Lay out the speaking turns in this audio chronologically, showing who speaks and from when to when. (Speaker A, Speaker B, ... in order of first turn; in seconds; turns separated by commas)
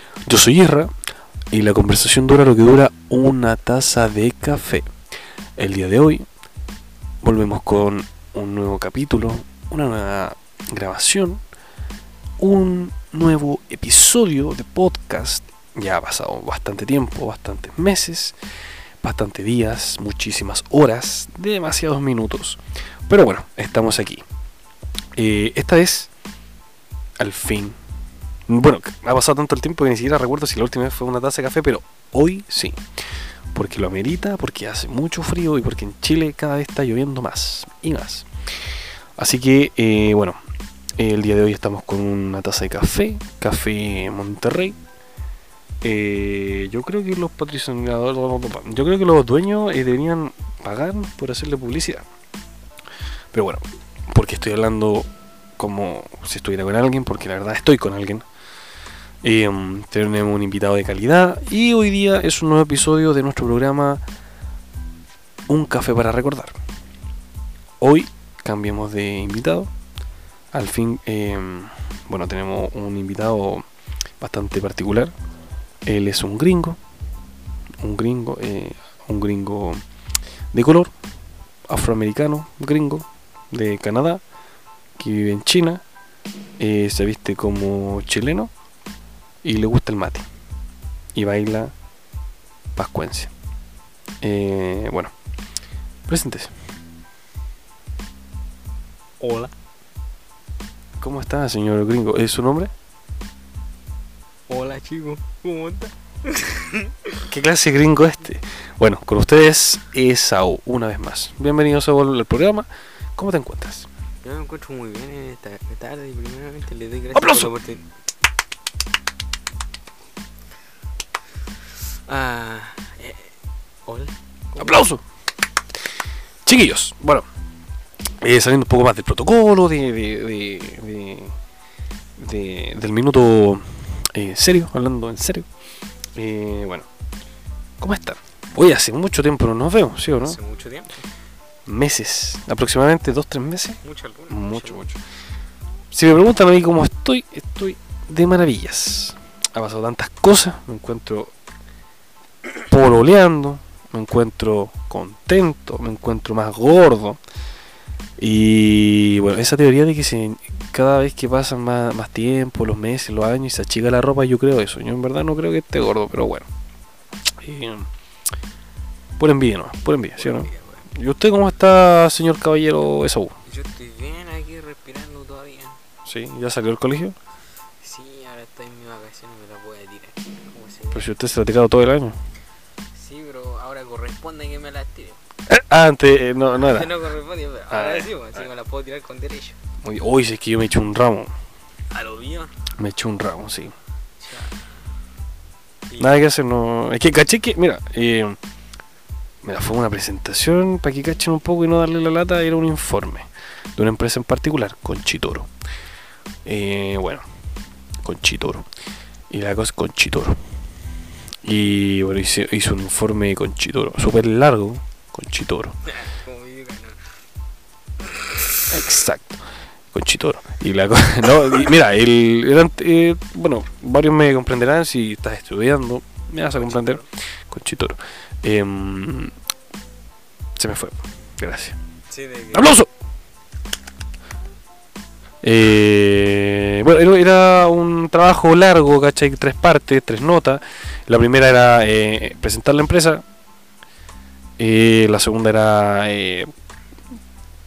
Speaker A: 0.3-0.9, Speaker A: 1.5-4.9, Speaker A: 5.6-6.2, Speaker A: 7.2-11.4, Speaker A: 12.4-18.4, Speaker A: 19.0-24.2, Speaker A: 25.1-26.1, Speaker A: 27.2-27.8, Speaker A: 28.5-32.8, Speaker A: 33.5-40.4, Speaker A: 41.0-44.8, Speaker A: 45.8-52.1, Speaker A: 53.3-58.2, Speaker A: 59.2-64.0, Speaker A: 65.5-66.6, Speaker A: 67.8-69.7, Speaker A: 70.5-73.7, Speaker A: 74.2-75.1, Speaker A: 75.8-76.8, Speaker A: 77.8-79.8, Speaker A: 80.5-80.9, Speaker A: 81.7-84.2, Speaker A: 85.0-85.8, Speaker A: 86.6-88.5, Speaker A: 89.4-90.2, Speaker A: 91.1-91.7, Speaker A: 92.8-93.3, Speaker A: 94.2-95.1, Speaker A: 96.1-96.5, Speaker B: 99.2-99.5, Speaker A: 101.0-102.7, Speaker B: 104.5-107.3, Speaker A: 107.3-113.9, Speaker B: 114.2-117.9, Speaker A: 117.1-117.5, Speaker B: 122.1-123.3, Speaker B: 123.9-124.9, Speaker A: 124.6-125.0, Speaker A: 126.5-127.2, Speaker A: 128.2-131.3, Speaker A: 132.2-135.5, Speaker A: 136.1-136.9, Speaker A: 137.8-140.4, Speaker B: 140.2-141.1, Speaker A: 141.7-144.9, Speaker B: 143.8-145.0, Speaker A: 145.9-151.3, Speaker A: 152.7-157.2, Speaker A: 158.2-166.5, Speaker A: 167.3-167.9, Speaker A: 169.2-173.3, Speaker B: 170.1-170.9, Speaker B: 173.5-175.8, Speaker A: 176.1-177.2, Speaker B: 177.8-181.1, Speaker A: 180.9-182.2, Speaker B: 182.9-185.2, Speaker A: 185.5-186.9, Speaker B: 186.6-189.6, Speaker A: 187.7-188.1, Speaker A: 189.8-191.3, Speaker B: 191.9-192.5, Speaker A: 192.8-193.8, Speaker B: 194.2-194.6, Speaker B: 195.9-196.2, Speaker A: 196.0-198.4, Speaker A: 199.4-205.5, Speaker A: 206.4-207.2, Speaker A: 208.0-208.7, Speaker A: 209.3-210.4, Speaker A: 211.4-215.8, Speaker B: 215.8-217.0, Speaker B: 218.0-218.7, Speaker A: 218.7-229.3, Speaker B: 226.5-227.1, Speaker A: 230.6-231.8, Speaker B: 232.1-232.7, Speaker A: 232.5-232.9, Speaker A: 235.4-243.2, Speaker A: 244.6-246.5